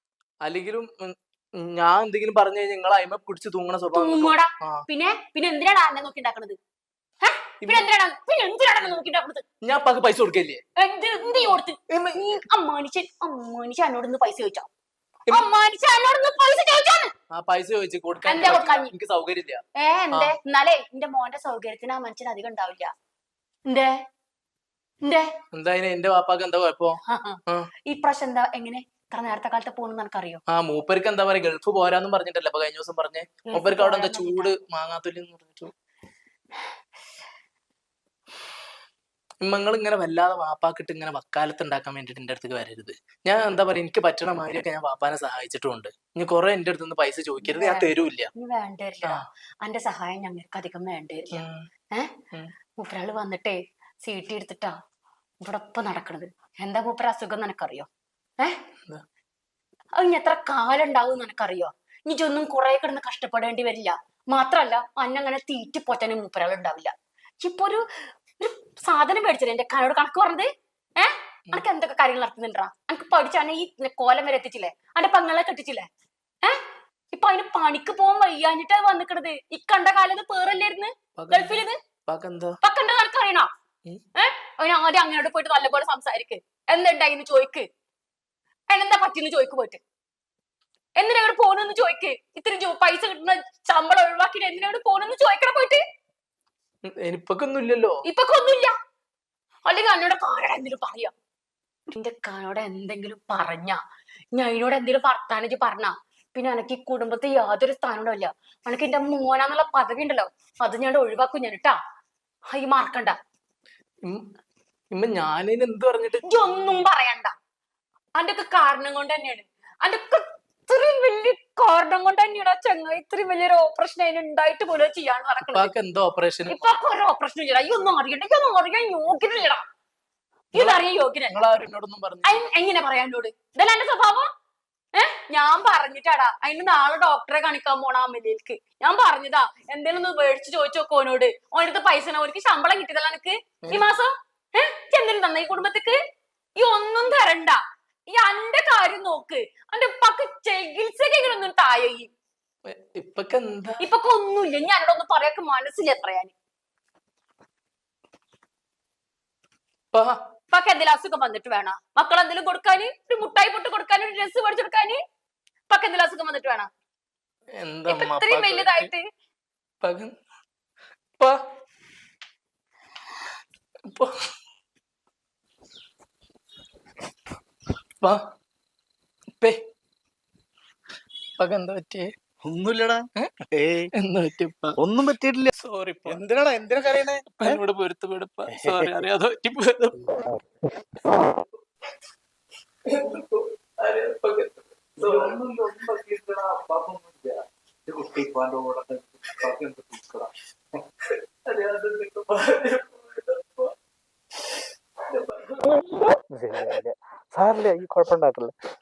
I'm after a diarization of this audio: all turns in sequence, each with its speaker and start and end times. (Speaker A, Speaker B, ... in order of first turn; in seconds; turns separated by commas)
Speaker A: 0.4-4.8, Speaker B: 3.9-6.6, Speaker B: 7.2-9.4, Speaker A: 9.6-10.6, Speaker B: 10.8-14.7, Speaker A: 11.9-12.4, Speaker B: 15.3-17.1, Speaker A: 17.3-20.4, Speaker B: 18.3-18.9, Speaker B: 19.8-22.9, Speaker B: 23.7-24.0, Speaker A: 25.5-27.7, Speaker B: 27.1-30.4, Speaker A: 30.5-35.7, Speaker B: 33.5-34.5, Speaker A: 39.4-48.3, Speaker B: 47.4-52.1, Speaker A: 51.3-51.7, Speaker B: 52.8-54.8, Speaker B: 55.4-57.9, Speaker B: 60.0-67.8, Speaker B: 68.4-75.9, Speaker B: 77.1-81.8, Speaker A: 81.2-82.6, Speaker B: 82.6-83.5, Speaker B: 84.2-87.7, Speaker B: 88.7-89.8, Speaker B: 91.0-95.8, Speaker A: 96.9-98.0, Speaker B: 98.0-98.7, Speaker B: 99.7-101.1, Speaker B: 101.9-103.8, Speaker B: 104.3-111.8, Speaker B: 112.5-113.2, Speaker A: 114.9-116.3, Speaker B: 116.2-117.3, Speaker B: 118.2-125.7, Speaker A: 125.5-126.7, Speaker B: 126.5-129.6, Speaker B: 130.5-131.4, Speaker A: 130.6-132.5, Speaker B: 132.2-134.3, Speaker B: 134.9-146.0, Speaker B: 146.6-152.1, Speaker A: 152.7-153.8, Speaker B: 153.8-156.3, Speaker B: 160.5-165.0, Speaker B: 165.7-166.7, Speaker A: 167.6-168.9, Speaker B: 167.9-169.1, Speaker A: 169.8-170.1, Speaker A: 181.4-182.1, Speaker C: 182.4-183.9, Speaker A: 184.0-184.8, Speaker C: 184.8-185.5, Speaker A: 185.6-186.2, Speaker C: 186.1-187.6, Speaker A: 187.3-190.2, Speaker C: 188.5-189.1, Speaker A: 192.9-195.4, Speaker C: 195.0-200.3, Speaker A: 201.5-203.7, Speaker A: 205.1-206.1, Speaker C: 206.3-208.5